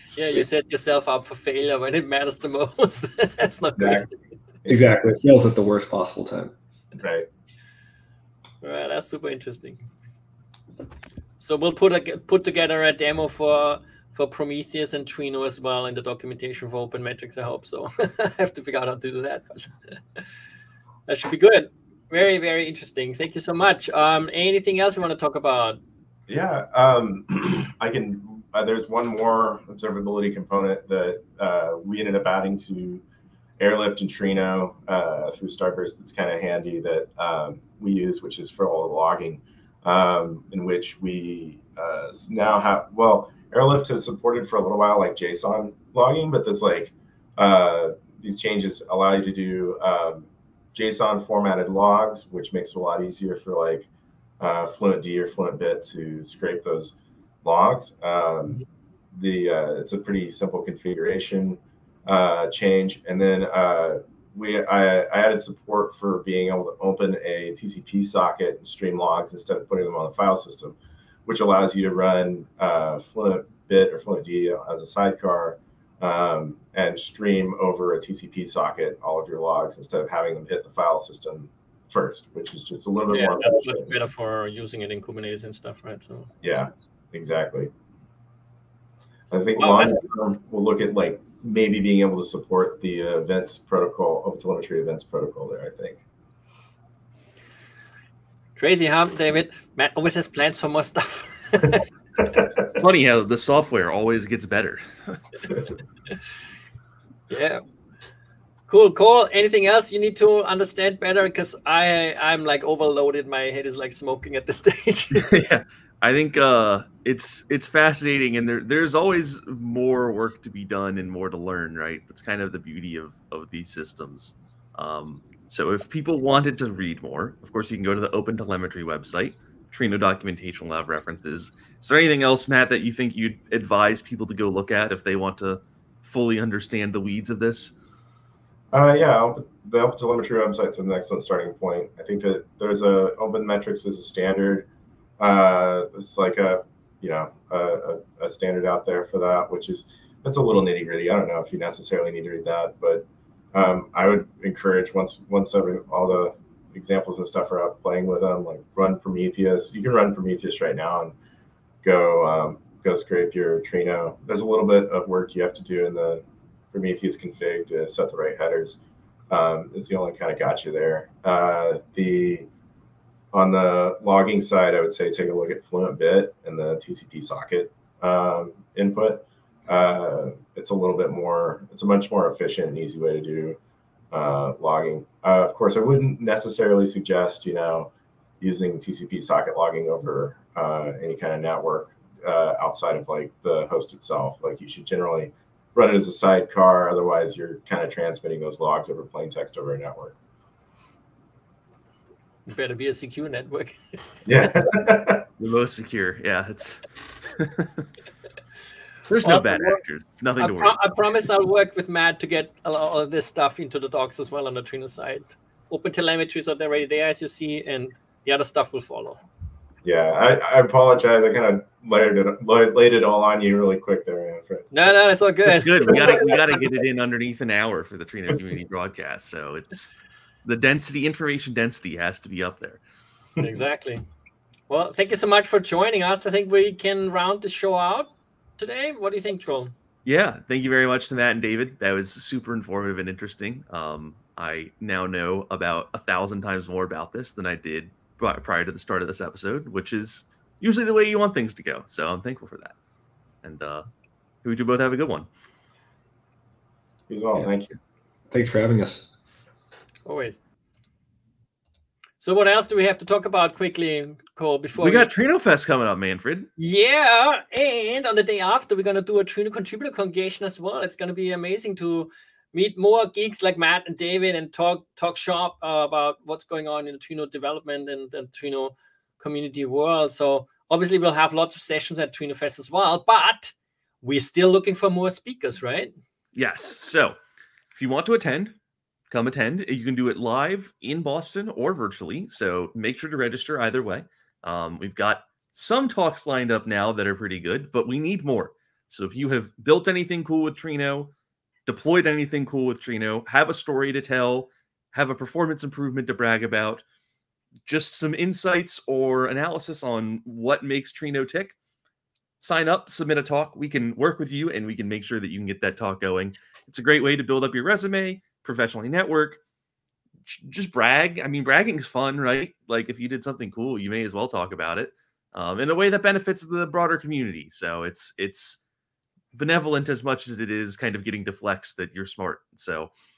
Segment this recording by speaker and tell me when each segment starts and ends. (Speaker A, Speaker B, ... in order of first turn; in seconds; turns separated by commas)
Speaker A: 0.1-4.1, Speaker B: 3.8-4.1, Speaker C: 4.7-6.5, Speaker B: 6.9-7.3, Speaker A: 8.6-9.8, Speaker A: 11.4-19.9, Speaker A: 21.1-25.8, Speaker B: 26.3-33.0, Speaker B: 33.6-53.9, Speaker B: 54.4-84.0, Speaker A: 83.1-86.3, Speaker B: 86.4-87.7, Speaker B: 89.3-96.0, Speaker A: 89.6-90.0, Speaker A: 98.6-101.8, Speaker D: 102.7-105.2, Speaker A: 107.3-107.6, Speaker A: 108.7-115.4, Speaker D: 115.1-137.7, Speaker B: 138.7-144.7, Speaker B: 145.2-161.1, Speaker B: 161.8-168.8, Speaker B: 169.3-172.5, Speaker B: 173.3-183.6, Speaker B: 184.1-187.9, Speaker B: 188.4-200.1, Speaker A: 202.5-204.0, Speaker B: 204.2-205.3, Speaker D: 205.4-207.8, Speaker D: 209.1-210.8, Speaker A: 209.2-209.8, Speaker A: 210.4-219.2, Speaker B: 219.8-224.7, Speaker A: 224.7-226.4, Speaker D: 225.5-232.8, Speaker A: 233.4-234.0, Speaker A: 234.7-239.7, Speaker D: 240.0-252.7, Speaker D: 253.4-253.8, Speaker D: 254.4-255.3, Speaker B: 257.1-257.8, Speaker C: 258.3-259.1, Speaker A: 260.0-260.4, Speaker A: 262.2-265.1, Speaker D: 264.8-266.5, Speaker A: 266.6-285.9, Speaker D: 286.3-287.2, Speaker D: 287.7-288.6, Speaker D: 289.1-301.1, Speaker D: 301.6-306.8, Speaker D: 307.6-311.6, Speaker D: 312.4-319.4, Speaker D: 320.2-328.6, Speaker D: 329.3-332.9